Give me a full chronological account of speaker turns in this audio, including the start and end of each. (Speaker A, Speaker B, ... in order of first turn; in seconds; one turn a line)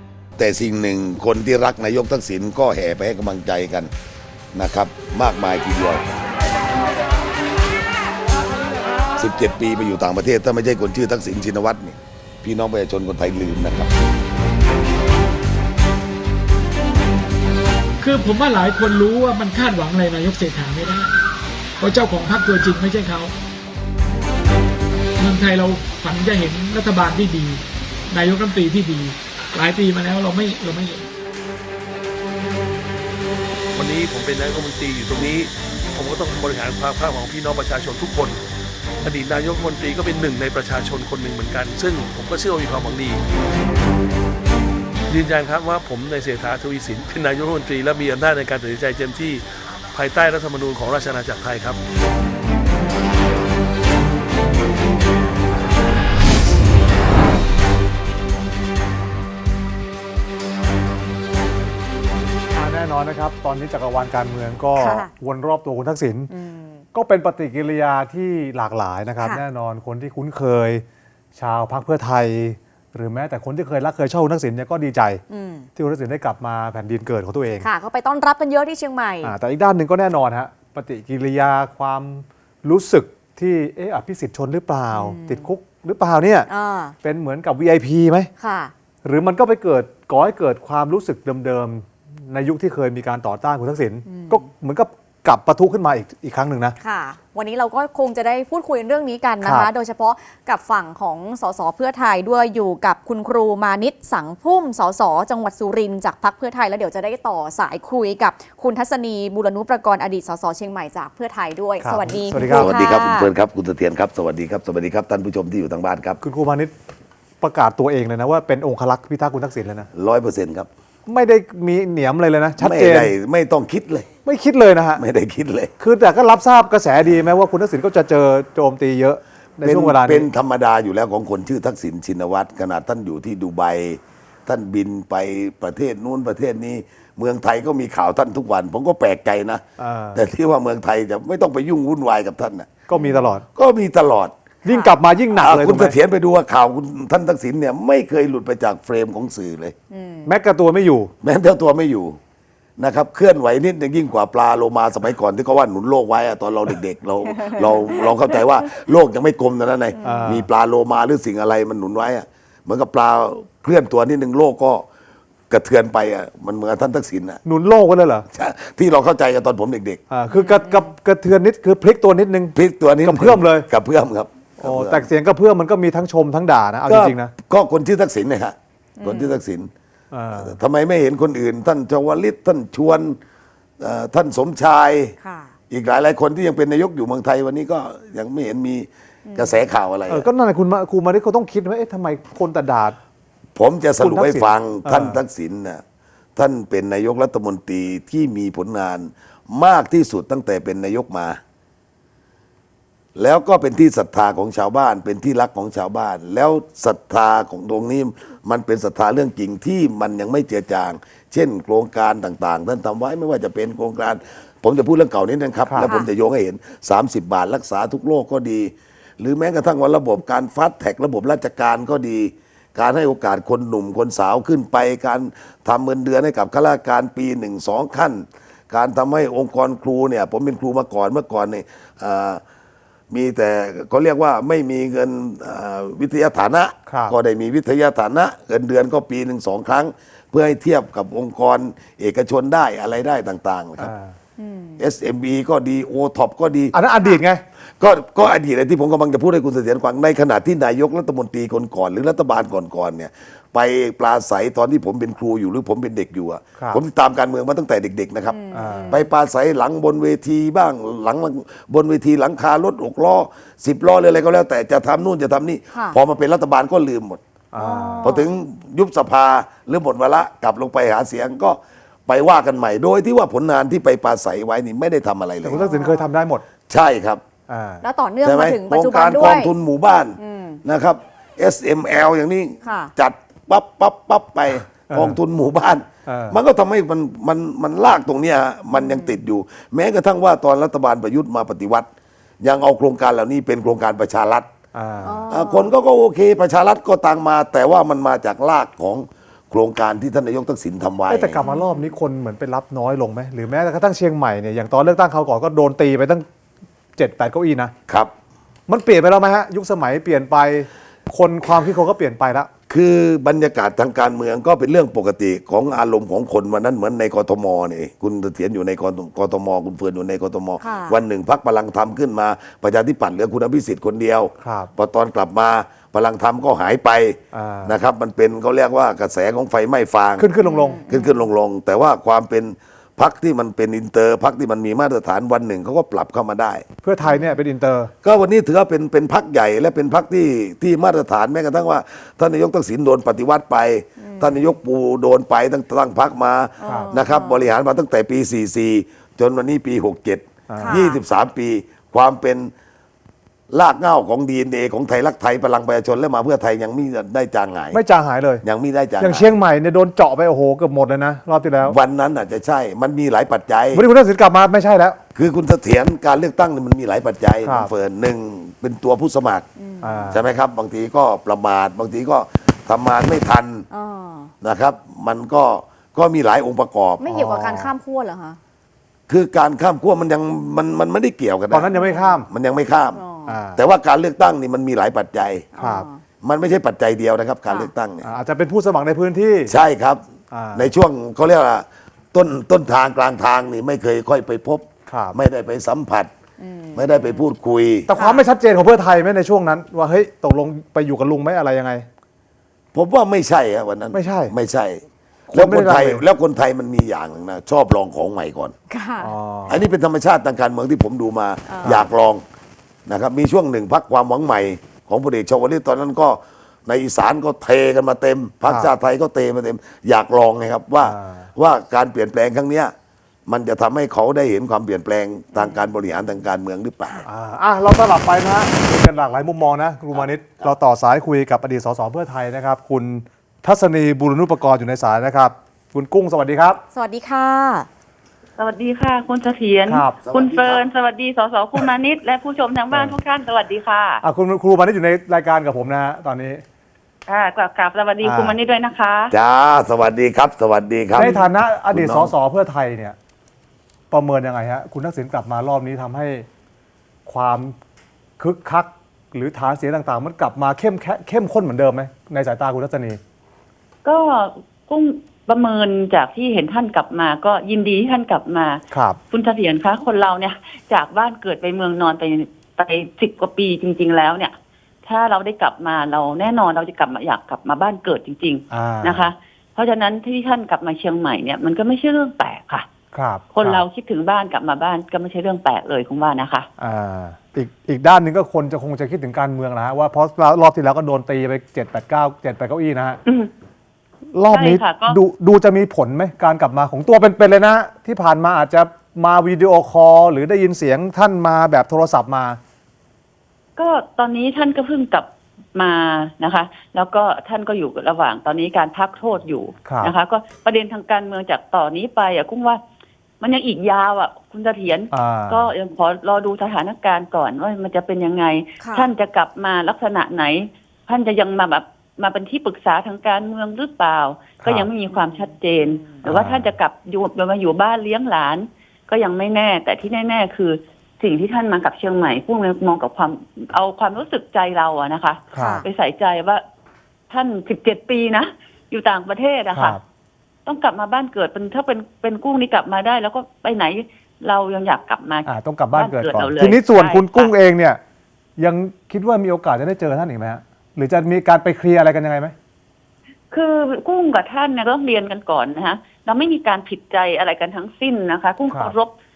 Speaker A: 0.4-3.9
Speaker A: 4.5-6.2
Speaker A: 9.2-13.9
Speaker B: 18.0-21.1
Speaker B: 21.8-23.3
Speaker B: 25.2-31.1
Speaker C: 33.8-38.4
Speaker C: 39.0-43.2
Speaker C: 45.1-51.8
Speaker D: 62.5-66.3
Speaker E: 64.8-65.1
Speaker E: 66.3-66.8
Speaker D: 66.9-75.2
Speaker E: 75.3-75.7
Speaker D: 75.8-77.7
Speaker E: 77.6-79.3
Speaker D: 79.2-86.5
Speaker E: 84.9-85.5
Speaker E: 86.5-87.0
Speaker D: 87.0-88.3
Speaker E: 88.4-88.7
Speaker D: 89.0-96.8
Speaker E: 94.1-94.4
Speaker E: 96.8-113.3
Speaker D: 99.4-99.7
Speaker D: 111.8-112.8
Speaker A: 112.3-116.2
Speaker D: 116.2-116.7
Speaker D: 117.4-119.9
Speaker A: 119.9-120.7
Speaker D: 121.1-123.1
Speaker A: 122.6-124.1
Speaker D: 124.2-125.0
Speaker A: 125.0-125.7
Speaker D: 125.8-130.3
Speaker A: 129.6-139.6
Speaker D: 139.8-140.2
Speaker A: 140.1-142.8
Speaker D: 142.9-143.4
Speaker E: 142.9-143.2
Speaker A: 143.6-144.3
Speaker D: 144.6-146.0
Speaker E: 144.7-145.0
Speaker A: 145.4-149.8
Speaker E: 149.9-150.3
Speaker D: 150.2-151.1
Speaker A: 151.2-152.2
Speaker A: 152.8-164.9
Speaker E: 157.3-158.5
Speaker E: 160.0-160.3
Speaker D: 160.0-160.5
Speaker A: 165.5-167.4
Speaker D: 167.4-168.3
Speaker A: 168.3-170.0
Speaker D: 170.1-173.7
Speaker E: 170.3-170.9
Speaker A: 172.6-175.1
Speaker D: 174.6-177.3
Speaker A: 176.9-179.7
Speaker E: 179.0-179.4
Speaker D: 180.1-180.6
Speaker A: 180.4-183.2
Speaker A: 183.8-185.2
Speaker E: 185.2-185.5
Speaker A: 185.7-190.3
Speaker E: 189.3-189.6
Speaker D: 190.1-193.0
Speaker A: 193.6-195.8
Speaker D: 194.0-195.2
Speaker A: 196.4-201.4
Speaker A: 203.2-232.4
Speaker D: 215.7-215.9
Speaker E: 215.8-216.1
Speaker A: 233.1-243.9
Speaker D: 236.9-237.2
Speaker D: 243.8-244.2
Speaker E: 244.4-244.8
Speaker A: 244.8-246.7
Speaker D: 246.7-247.4
Speaker A: 247.8-267.2
Speaker E: 258.3-259.0
Speaker D: 258.5-259.0
Speaker D: 267.5-268.2
Speaker E: 267.6-268.3
Speaker A: 268.0-275.7
Speaker D: 275.4-276.4
Speaker E: 275.6-276.1
Speaker A: 276.7-277.2
Speaker D: 277.5-277.9
Speaker E: 277.8-279.5
Speaker A: 278.2-291.9
Speaker E: 280.2-280.6
Speaker E: 282.6-282.9
Speaker D: 284.9-285.2
Speaker D: 286.1-286.4
Speaker E: 288.7-289.2
Speaker A: 292.4-294.5
Speaker D: 294.7-295.2
Speaker E: 295.0-295.7
Speaker A: 295.3-301.4
Speaker D: 301.1-306.3
Speaker E: 301.4-301.9
Speaker D: 307.0-307.7
Speaker D: 308.7-312.5
Speaker A: 312.7-330.3
Speaker E: 320.6-321.0
Speaker D: 324.4-324.7
Speaker D: 327.3-327.8
Speaker D: 330.2-330.8
Speaker E: 330.4-331.3
Speaker A: 330.9-336.7
Speaker D: 336.8-337.9
Speaker E: 337.0-337.4
Speaker A: 338.0-352.5
Speaker E: 344.0-344.4
Speaker E: 346.6-347.5
Speaker D: 346.6-346.9
Speaker D: 350.5-350.9
Speaker E: 350.6-351.0
Speaker A: 353.5-357.8
Speaker D: 357.7-358.4
Speaker A: 358.4-359.3
Speaker D: 359.0-361.8
Speaker A: 361.6-363.9
Speaker D: 363.7-365.0
Speaker A: 365.1-369.5
Speaker D: 367.4-367.7
Speaker E: 369.6-370.1
Speaker D: 369.8-370.2
Speaker A: 370.1-373.7
Speaker E: 373.7-374.3
Speaker A: 374.4-377.0
Speaker E: 377.0-378.4
Speaker D: 377.1-377.7
Speaker A: 379.1-381.7
Speaker D: 381.5-382.3
Speaker E: 381.7-382.2
Speaker A: 382.3-383.0
Speaker E: 382.9-383.4
Speaker D: 383.3-383.6
Speaker A: 383.6-385.5
Speaker E: 385.6-386.0
Speaker D: 385.6-385.9
Speaker A: 386.2-388.1
Speaker D: 388.0-389.5
Speaker A: 389.5-390.0
Speaker D: 390.3-390.7
Speaker A: 390.6-396.1
Speaker D: 394.9-395.2
Speaker E: 396.4-397.2
Speaker A: 396.7-397.9
Speaker D: 397.9-401.9
Speaker E: 397.9-398.3
Speaker A: 402.7-408.5
Speaker D: 403.9-404.3
Speaker D: 405.3-406.0
Speaker E: 408.7-409.1
Speaker D: 409.0-409.6
Speaker A: 409.5-412.2
Speaker E: 411.5-411.9
Speaker A: 412.9-422.7
Speaker D: 418.5-418.7
Speaker D: 420.8-421.3
Speaker A: 423.3-427.1
Speaker E: 425.3-425.6
Speaker D: 427.1-436.6
Speaker A: 429.9-430.5
Speaker E: 436.7-437.7
Speaker F: 438.4-444.0
Speaker D: 439.7-440.0
Speaker A: 440.0-440.6
Speaker D: 444.0-446.4
Speaker F: 447.1-449.1
Speaker D: 448.0-448.4
Speaker A: 449.1-451.1
Speaker D: 450.9-453.0
Speaker A: 451.7-452.1
Speaker D: 453.9-456.3
Speaker D: 457.1-457.6
Speaker D: 458.2-463.0
Speaker F: 463.9-474.3
Speaker D: 468.7-469.0
Speaker F: 474.9-482.7
Speaker D: 478.5-479.1
Speaker D: 482.9-483.6
Speaker F: 483.3-486.5
Speaker D: 486.6-493.0
Speaker F: 493.1-493.3
Speaker D: 494.1-502.4
Speaker F: 494.3-495.0
Speaker F: 503.6-512.6
Speaker D: 509.6-509.9
Speaker F: 513.2-536.4
Speaker D: 514.9-515.5
Speaker E: 518.6-518.9
Speaker D: 524.4-524.7
Speaker E: 524.9-526.0
Speaker D: 526.0-526.5
Speaker D: 535.3-535.6
Speaker E: 535.4-535.6
Speaker F: 537.1-539.8
Speaker D: 539.5-539.8
Speaker F: 540.5-547.3
Speaker D: 545.3-547.8
Speaker D: 548.4-552.4
Speaker F: 553.3-558.9
Speaker D: 558.5-558.8